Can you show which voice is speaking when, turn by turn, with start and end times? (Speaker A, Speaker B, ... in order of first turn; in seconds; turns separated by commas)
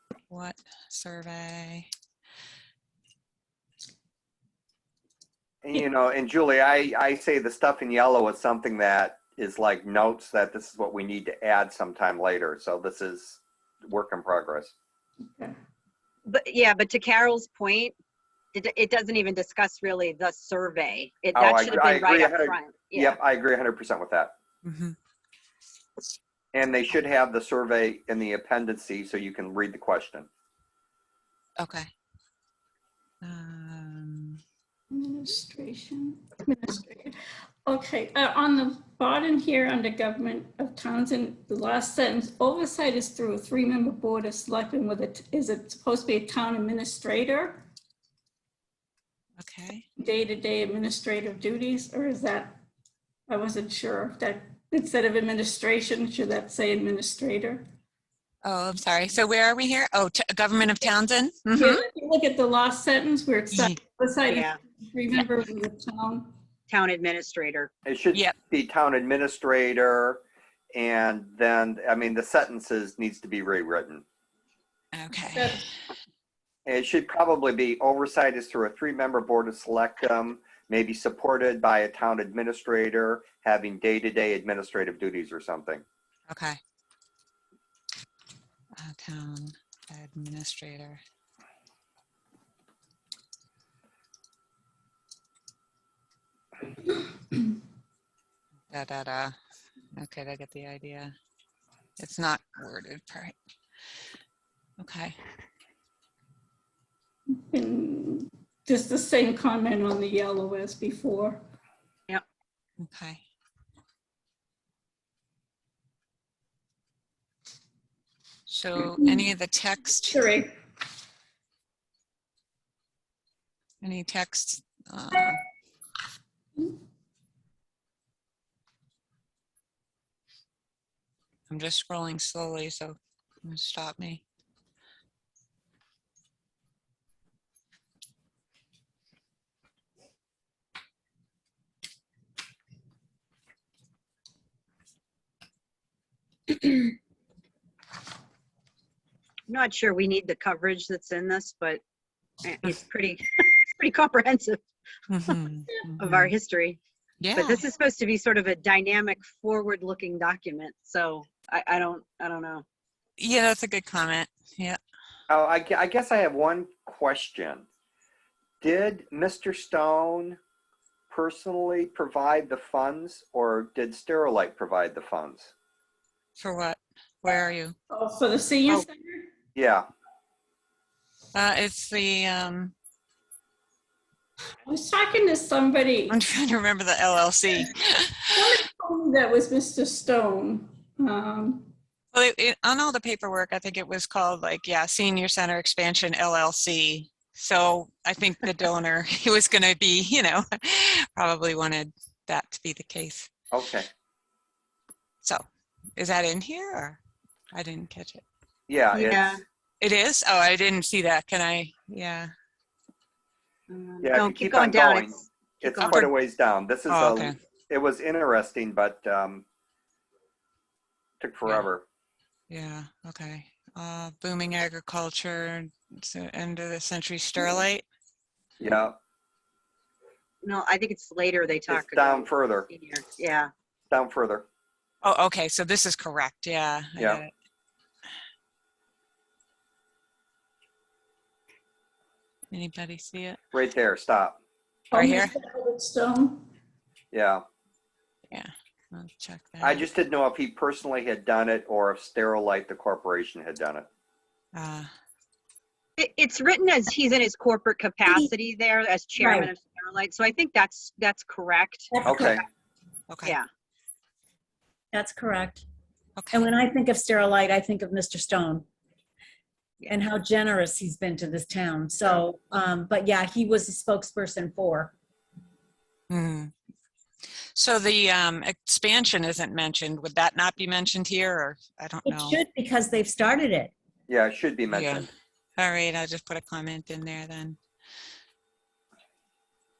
Speaker A: 0.3-1.9, Speaker B: 5.6-14.7, Speaker C: 16.2-17.9, Speaker C: 18.5-23.2, Speaker B: 21.3-24.3, Speaker A: 24.6-24.9, Speaker B: 26.5-30.3, Speaker A: 31.6-31.9, Speaker A: 33.2-34.4, Speaker D: 34.9-47.6, Speaker A: 49.4-49.9, Speaker D: 50.0-52.6, Speaker D: 53.3-57.6, Speaker A: 58.4-61.8, Speaker D: 61.5-66.3, Speaker C: 64.3-64.6, Speaker C: 66.7-67.7, Speaker B: 67.8-70.2, Speaker B: 70.7-74.0, Speaker A: 74.9-75.6, Speaker B: 76.7-85.8, Speaker A: 86.3-86.6, Speaker A: 88.8-91.0, Speaker A: 98.7-99.3, Speaker A: 99.9-101.1, Speaker A: 102.0-103.3, Speaker A: 104.8-105.1, Speaker D: 107.5-111.3, Speaker A: 112.8-113.2, Speaker A: 118.5-120.2, Speaker A: 123.8-125.4, Speaker A: 131.5-134.2, Speaker C: 149.5-151.8, Speaker C: 152.4-154.6, Speaker A: 155.1-156.3, Speaker C: 156.0-156.8, Speaker A: 157.2-157.6, Speaker C: 157.3-162.6, Speaker A: 163.2-164.8, Speaker B: 165.3-167.6, Speaker B: 168.6-170.4, Speaker B: 171.1-175.5, Speaker A: 176.3-177.8, Speaker D: 178.0-179.2, Speaker B: 179.5-179.9, Speaker A: 181.3-182.7, Speaker D: 184.7-186.1, Speaker A: 186.1-188.3, Speaker D: 188.4-191.7, Speaker A: 192.1-203.3, Speaker B: 203.5-203.9, Speaker A: 205.9-207.0, Speaker A: 207.5-208.2, Speaker B: 208.7-209.4, Speaker C: 208.9-209.4, Speaker A: 209.8-212.3, Speaker C: 213.7-216.1, Speaker B: 214.0-219.4, Speaker A: 216.9-217.3, Speaker B: 221.2-221.8, Speaker A: 222.5-227.8, Speaker B: 228.6-229.0, Speaker C: 230.4-233.5, Speaker B: 231.7-232.7, Speaker B: 233.9-234.4, Speaker A: 235.0-237.3, Speaker B: 237.0-237.2, Speaker A: 242.5-243.4, Speaker B: 243.5-244.4, Speaker A: 244.9-245.3, Speaker D: 244.9-246.4, Speaker B: 247.1-247.4, Speaker A: 248.3-249.8, Speaker B: 249.6-253.9, Speaker A: 254.5-254.9, Speaker C: 256.0-262.3, Speaker E: 259.1-259.5, Speaker E: 261.9-262.4, Speaker B: 262.1-262.4, Speaker A: 263.1-263.4, Speaker E: 264.9-265.6, Speaker A: 266.1-266.5, Speaker E: 266.3-268.6, Speaker E: 269.8-274.9, Speaker A: 276.1-276.5, Speaker A: 277.5-282.4, Speaker E: 282.0-283.7, Speaker B: 284.1-285.1, Speaker A: 284.7-287.6